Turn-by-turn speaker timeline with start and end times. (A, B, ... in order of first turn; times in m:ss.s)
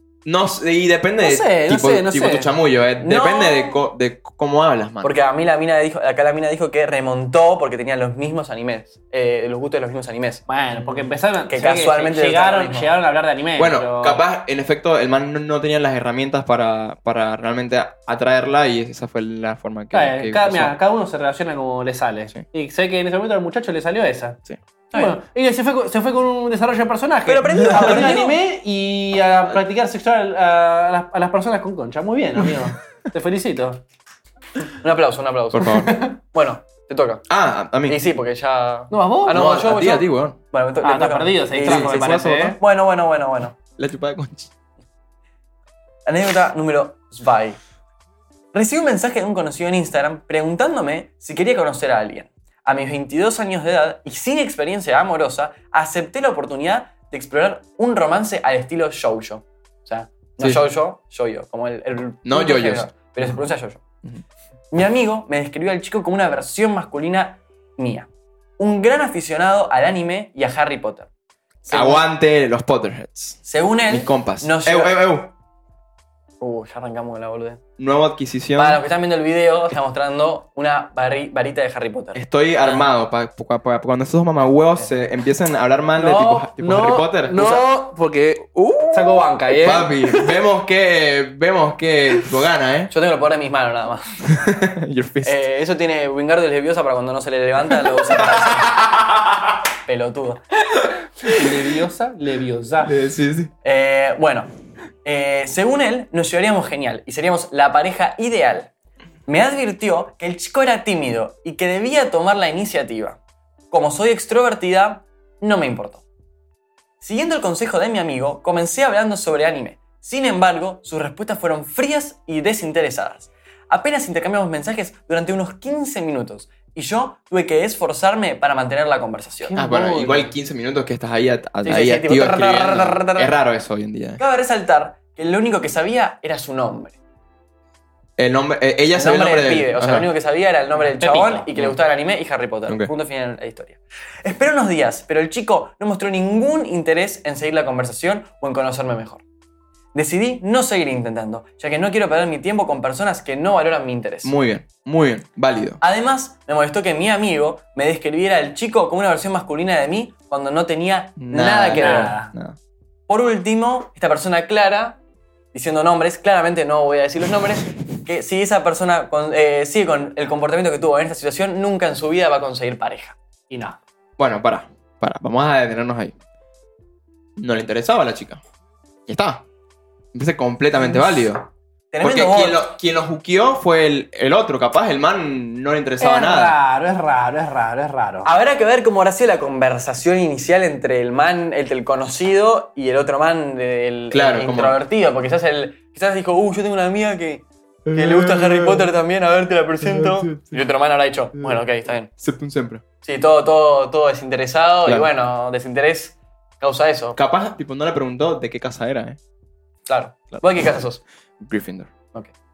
0:00.2-0:05.1 A
0:01.2-0:02.5 B
0:03.0-0:03.8 C
0:05.0-0:10.4 C
0:10.5-0:14.2 B
0:11.5-0:12.9 C
0:13.6-0:20.7 A
0:19.9-0:24.4 B
0:24.9-0:25.2 C
0:24.9-0:33.8 B
0:27.2-0:28.3 C
0:27.6-0:28.2 A
0:34.8-0:37.2 C
0:35.5-0:36.0 A
0:35.9-0:36.1 B
0:37.3-0:38.0 A
0:37.9-0:43.6 C
0:38.9-0:39.4 B
0:39.3-0:40.4 A
0:40.8-0:42.6 B
0:41.6-0:42.6 A
0:43.8-0:44.5 A
0:46.0-0:47.6 C
0:48.5-1:03.8 C
1:02.2-1:03.3 A
1:04.7-1:08.1 C
1:08.6-1:11.1 C
1:11.6-1:12.0 C
1:11.7-1:15.3 A
1:13.4-1:15.0 C
1:16.4-1:17.6 C
1:17.8-1:18.8 A
1:18.6-1:22.9 C
1:22.1-1:27.5 A
1:26.0-1:30.2 B
1:28.6-1:32.9 A
1:32.9-1:34.1 C
1:34.2-1:35.4 A
1:35.2-1:38.7 C
1:38.2-1:39.1 A
1:39.8-1:40.4 C
1:41.3-1:43.0 B
1:42.8-1:43.5 A
1:43.6-1:44.5 C
1:45.0-1:48.7 C
1:49.3-1:53.2 C
1:53.7-1:56.0 C
1:57.0-2:09.6 C
2:09.4-2:10.3 B
2:09.5-2:14.2 A
2:11.6-2:13.3 C
2:14.2-2:17.0 C
2:18.2-2:20.1 A
2:18.9-2:29.2 C
2:20.8-2:21.4 B
2:29.9-2:34.3 C
2:34.2-2:35.8 A
2:35.8-2:42.1 C
2:41.2-2:42.6 A
2:41.8-2:42.3 B
2:43.1-2:45.0 C
2:45.5-2:53.2 C
2:53.5-2:53.8 B
2:54.2-2:56.1 A
2:57.4-2:58.4 A
2:59.1-2:59.4 A
3:00.1-3:01.5 A
3:01.9-3:02.6 C
3:02.0-3:06.6 A
3:06.0-3:08.3 B
3:08.2-3:22.1 C
3:14.1-3:14.8 A
3:17.8-3:18.9 A
3:19.8-3:20.6 A
3:22.2-3:22.8 A
3:23.0-3:27.2 C
3:27.2-3:29.2 A
3:29.9-3:31.0 C
3:30.3-3:30.8 A
3:31.4-3:31.9 A